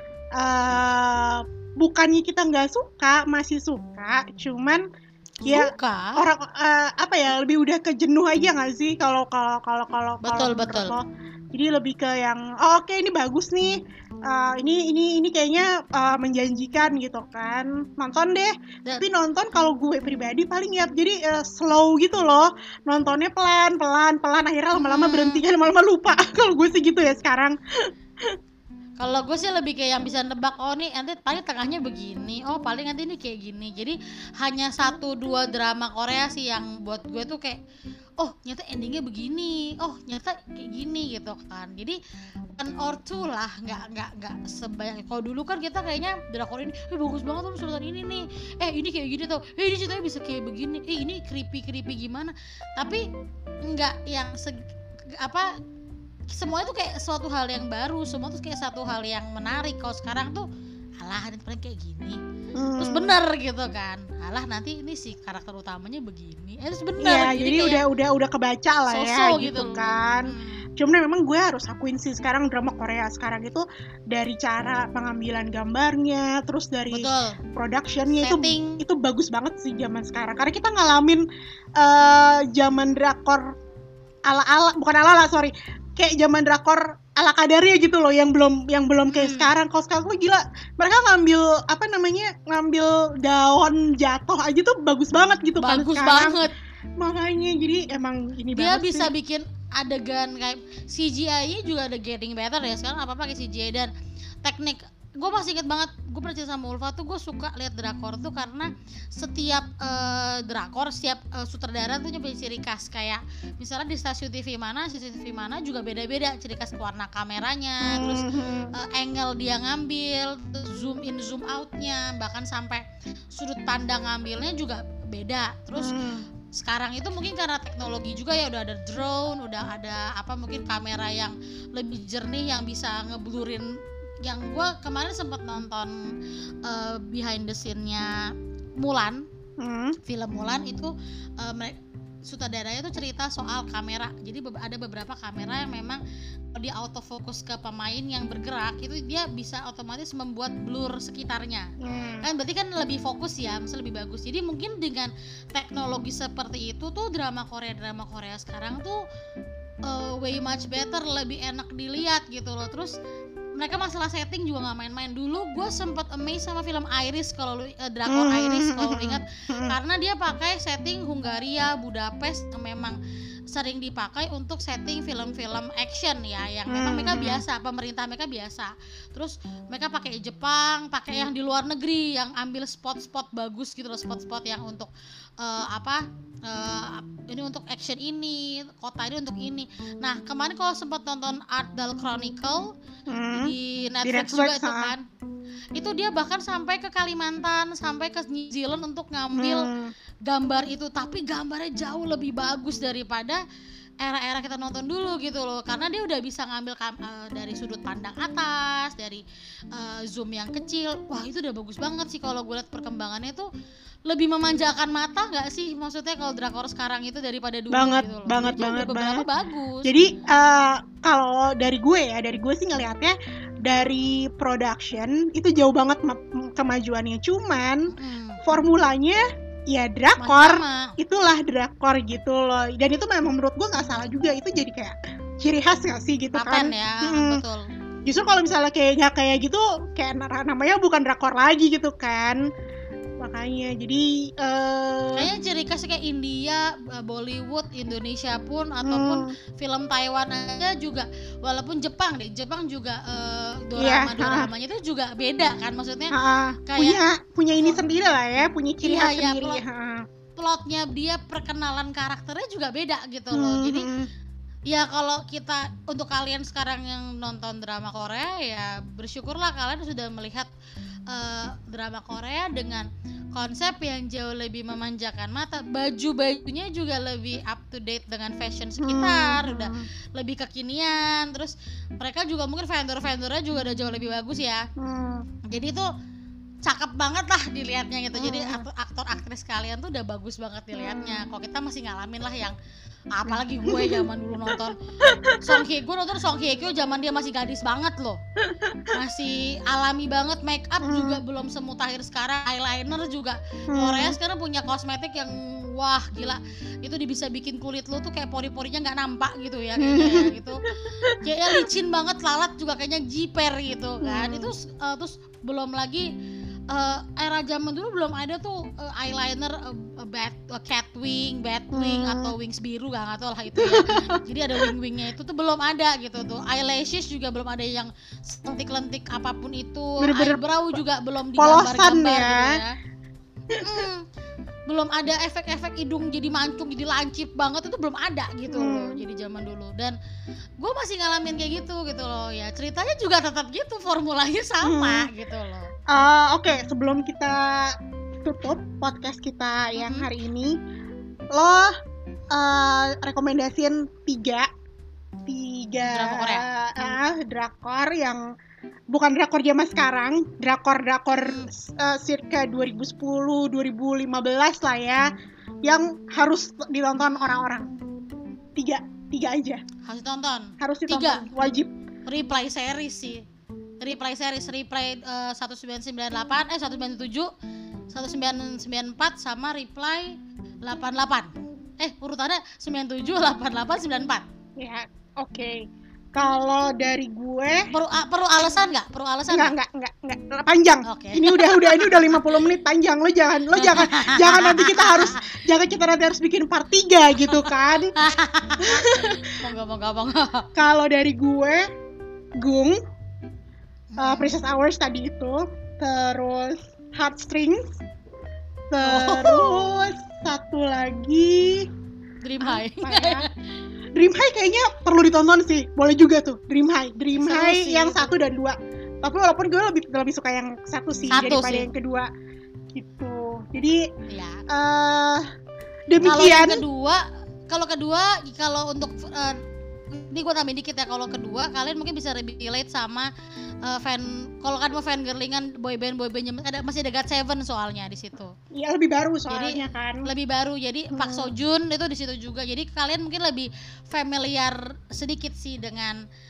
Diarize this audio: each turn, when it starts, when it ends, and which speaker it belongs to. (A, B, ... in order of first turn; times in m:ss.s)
0:00.4-0:04.8 A
0:05.4-0:06.2 B
0:05.4-0:27.6 A
0:10.2-0:11.0 B
0:24.8-0:25.4 B
0:29.0-0:37.6 B
0:38.2-0:42.0 B
0:42.6-0:53.1 B
0:53.6-0:54.6 B
0:55.2-0:55.5 B
0:56.3-1:00.4 B
1:01.0-1:02.2 B
1:02.6-1:03.1 A
1:02.8-1:07.8 B
1:07.0-1:21.2 A
1:08.9-1:10.6 B
1:16.9-1:17.4 B
1:18.2-1:18.8 B
1:21.8-1:23.6 A
1:24.3-1:36.4 A
1:29.1-1:29.5 B
1:35.6-1:36.5 B
1:37.0-1:39.1 A
1:38.6-1:43.9 B
1:44.4-2:06.0 B
1:57.8-1:58.7 A
2:05.8-2:06.3 A
2:06.5-2:15.9 B
2:16.6-2:18.2 B
2:18.8-2:19.3 B
2:19.6-2:20.0 A
2:20.1-2:26.0 B
2:26.6-2:31.7 B
2:31.8-2:32.3 A
2:32.2-2:39.0 B
2:39.8-2:43.0 B
2:43.6-2:53.0 B
2:48.1-2:49.8 A
2:53.5-3:12.7 B
2:56.7-2:57.4 A
3:13.1-3:14.9 A
3:13.3-3:15.0 B
3:15.8-3:19.7 B
3:19.4-3:19.9 A
3:20.3-3:23.4 B
3:24.0-3:33.5 B
3:34.1-3:39.9 B
3:37.7-3:39.3 A
3:39.8-3:47.9 A
3:47.9-3:48.4 B
3:48.4-3:57.4 A
3:50.2-3:51.0 B
3:56.3-3:57.7 B
3:58.1-4:02.4 A
4:03.2-4:05.3 A
4:05.1-4:16.2 B
4:08.8-4:09.3 A
4:13.8-4:14.5 A
4:16.1-4:20.0 A
4:16.7-4:17.0 B
4:17.5-4:17.8 B
4:18.8-4:19.6 B
4:20.4-4:23.9 B
4:23.3-4:24.1 A
4:24.7-4:30.5 B
4:31.1-4:44.6 B
4:38.8-4:39.8 A
4:44.8-4:45.2 A
4:45.5-4:45.9 B
4:46.6-4:52.6 B
4:48.2-4:48.6 A
4:50.7-4:51.2 A
4:53.1-4:54.8 B
4:53.3-4:55.6 A
4:55.4-4:58.2 B
4:58.5-4:58.9 A
4:58.9-5:10.6 B
5:00.8-5:01.2 A
5:03.7-5:04.2 A
5:09.8-5:10.4 A
5:10.9-5:11.6 A
5:11.2-5:16.1 B
5:14.0-5:14.5 A
5:16.7-5:32.7 B
5:21.7-5:22.3 A
5:23.6-5:24.7 A
5:30.0-5:30.4 A
5:31.4-5:32.6 A
5:33.5-5:33.9 A
5:33.6-5:34.0 B
5:34.7-5:40.0 B
5:38.5-5:39.0 A
5:40.6-5:45.7 B
5:44.6-5:45.1 A
5:45.9-5:50.6 A
5:49.8-5:50.1 B
5:51.4-5:51.8 A
5:52.3-5:54.5 A
5:55.3-5:58.3 A
5:55.9-5:56.4 B
5:58.9-6:05.1 A
6:01.1-6:01.5 B
6:05.6-6:07.7 A
6:08.6-6:09.6 A
6:09.8-6:11.3 B
6:10.6-6:11.7 A
6:12.1-6:13.2 B
6:13.8-6:17.3 B
6:17.9-6:24.2 B
6:24.6-6:27.7 A
6:27.7-6:29.5 B
6:29.3-6:37.9 A
6:30.8-6:32.4 B
6:33.6-6:35.4 B
6:37.2-6:40.5 B
6:38.6-6:39.3 A
6:40.6-6:41.7 A
6:42.4-6:42.8 A
6:43.9-6:44.4 B
6:44.0-6:47.8 A
6:48.7-6:51.7 A
6:48.8-6:49.7 B
6:52.2-6:53.4 B
6:52.4-6:53.3 A
6:54.0-7:02.1 A
6:57.1-6:58.1 B
7:01.1-7:01.7 B
7:02.7-7:03.9 A
7:04.1-7:04.4 B
7:04.5-7:05.3 A
7:05.9-7:06.6 A
7:06.0-7:13.1 B
7:13.6-7:18.3 B
7:18.5-7:20.1 A
7:19.3-7:26.0 B
7:20.9-7:21.3 A